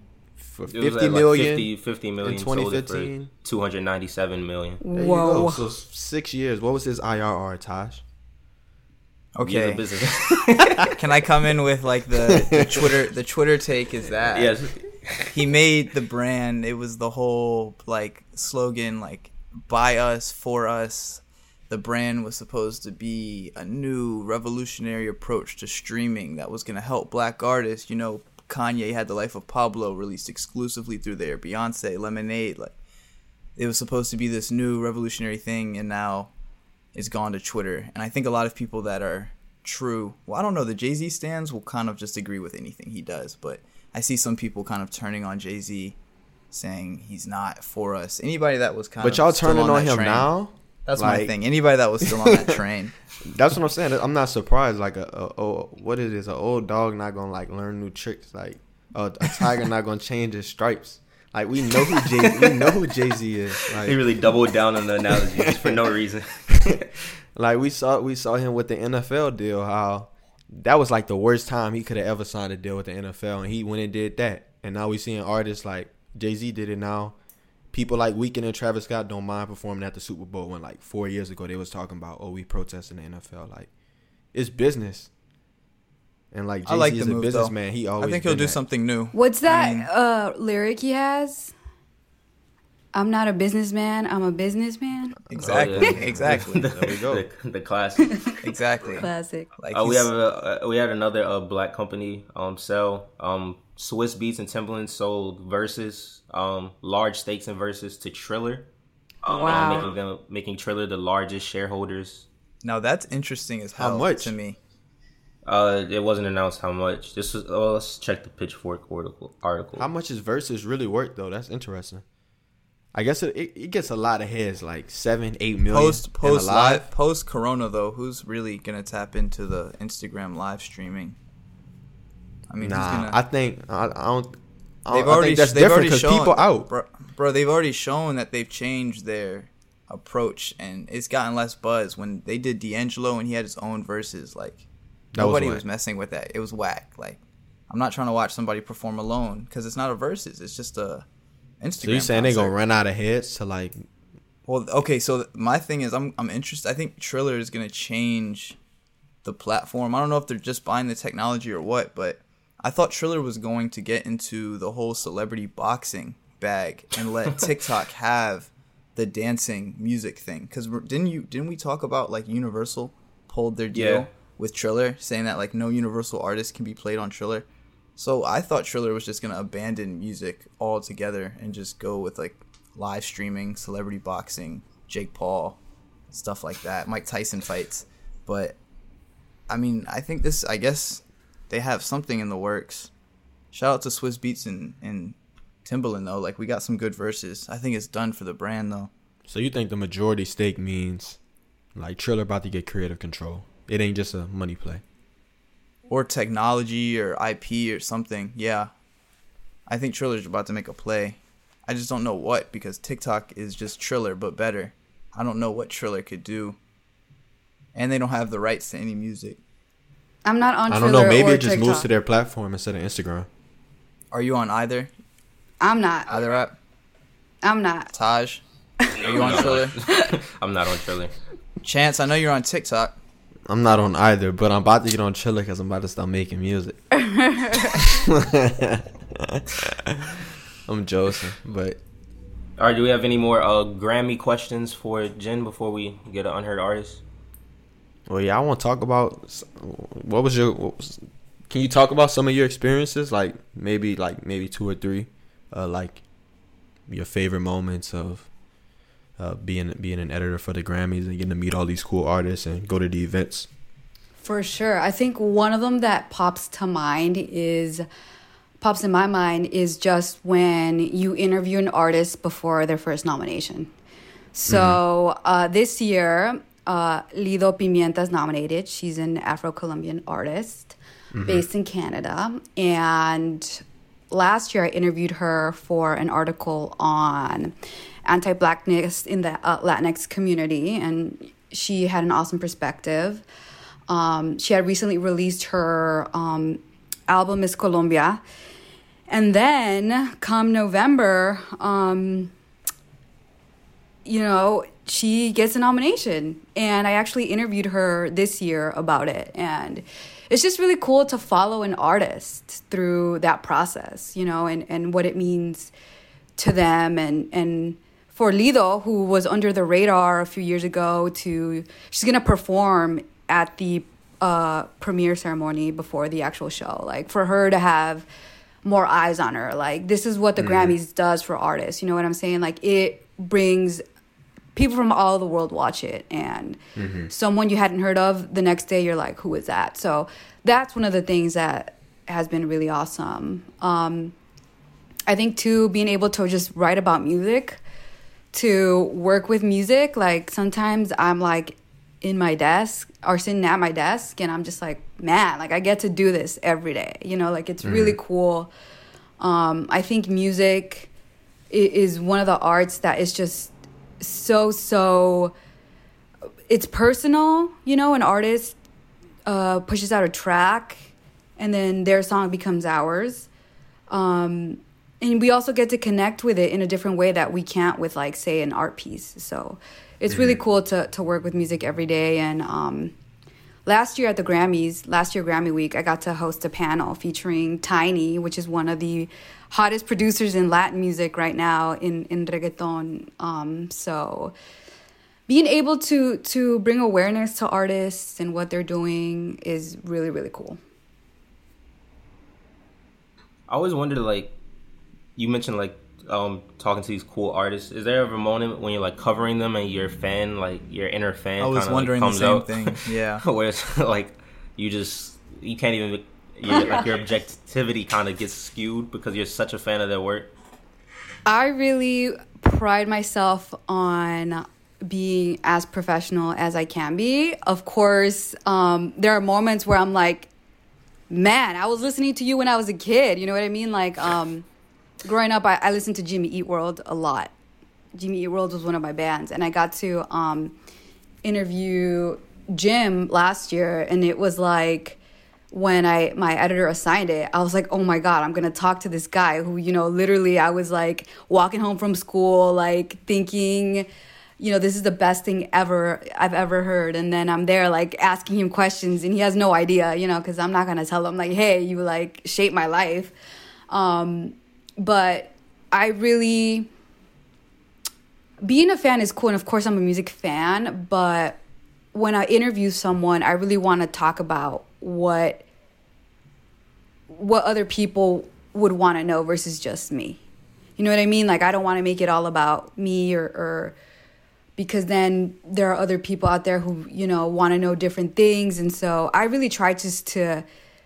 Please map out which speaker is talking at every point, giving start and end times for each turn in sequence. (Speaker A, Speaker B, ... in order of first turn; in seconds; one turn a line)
Speaker A: 0.4-1.7
Speaker B: 0.7-4.8
Speaker A: 2.2-3.3
Speaker C: 4.8-5.6
Speaker A: 4.9-8.0
Speaker D: 9.3-9.8
Speaker B: 9.4-10.9
Speaker D: 10.8-14.5
Speaker A: 12.3-12.8
Speaker B: 14.3-15.3
Speaker D: 15.3-32.7
Speaker D: 33.6-36.3
Speaker D: 36.9-46.0
Speaker D: 46.5-50.3
Speaker A: 49.0-51.4
Speaker D: 50.9-53.0
Speaker A: 52.0-52.5
Speaker A: 53.2-64.0
Speaker B: 62.2-62.8
Speaker B: 63.7-66.8
Speaker A: 65.2-65.8
Speaker A: 67.3-77.2
Speaker A: 77.7-83.7
Speaker A: 84.3-85.1
Speaker A: 86.3-88.6
Speaker D: 86.6-89.9
Speaker C: 89.1-91.5
Speaker C: 92.9-95.2
Speaker D: 95.3-96.7
Speaker A: 95.3-97.2
Speaker B: 95.4-98.3
Speaker D: 98.4-100.1
Speaker C: 99.0-99.5
Speaker B: 99.7-108.7
Speaker C: 109.2-109.9
Speaker B: 109.2-112.3
Speaker D: 112.6-114.6
Speaker A: 113.8-114.3
Speaker B: 115.5-119.9
Speaker A: 119.8-122.0
Speaker A: 122.9-126.9
Speaker D: 125.7-131.2
Speaker D: 132.5-133.2
Speaker A: 132.6-136.7
Speaker D: 134.9-147.2
Speaker A: 145.1-145.6
Speaker D: 147.7-151.1
Speaker D: 151.6-152.5
Speaker A: 151.8-153.9
Speaker D: 154.4-158.6
Speaker D: 159.2-185.6
Speaker B: 173.7-174.1
Speaker D: 186.1-188.6
Speaker D: 189.5-192.9
Speaker D: 193.5-198.9
Speaker A: 199.2-201.2
Speaker A: 201.7-204.8
Speaker D: 205.9-208.7
Speaker D: 209.7-216.6
Speaker D: 217.7-219.4
Speaker C: 220.2-221.9
Speaker A: 220.7-223.3
Speaker D: 224.1-224.9
Speaker C: 225.6-226.1
Speaker D: 226.1-226.5
Speaker C: 227.4-227.9
Speaker D: 227.9-228.4
Speaker D: 228.9-229.8
Speaker B: 229.0-231.1
Speaker D: 231.6-232.9
Speaker A: 233.5-236.9
Speaker C: 236.9-237.8
Speaker A: 237.7-241.8
Speaker B: 242.6-247.0
Speaker A: 248.1-256.0
Speaker A: 256.9-258.3
Speaker A: 259.2-263.5
Speaker C: 264.2-267.9
Speaker C: 268.6-273.7
Speaker C: 274.3-287.5
Speaker A: 274.5-274.8
Speaker A: 281.1-281.4
Speaker C: 288.0-293.2
Speaker C: 293.9-298.2
Speaker C: 299.1-302.3
Speaker C: 304.0-315.7
Speaker C: 316.4-328.1
Speaker C: 328.6-333.8
Speaker A: 330.4-330.8
Speaker C: 334.5-344.1
Speaker A: 336.8-337.1
Speaker C: 345.1-347.6
Speaker C: 348.3-358.5
Speaker A: 357.6-358.0
Speaker C: 359.2-360.9
Speaker C: 361.5-365.3
Speaker C: 366.5-368.6
Speaker C: 369.3-373.3
Speaker C: 373.9-382.9
Speaker A: 380.1-380.4
Speaker C: 383.6-394.3
Speaker C: 395.3-400.6
Speaker B: 403.5-404.3
Speaker B: 405.2-420.3
Speaker D: 411.4-413.2
Speaker C: 421.2-430.3
Speaker C: 431.1-434.4
Speaker C: 435.0-437.3
Speaker C: 437.9-440.5
Speaker C: 441.2-445.0
Speaker C: 445.5-453.9
Speaker C: 454.4-463.1
Speaker C: 463.7-466.7
Speaker C: 468.4-471.4
Speaker C: 471.9-475.4
Speaker C: 477.1-480.2
Speaker C: 480.8-483.8
Speaker C: 484.6-490.4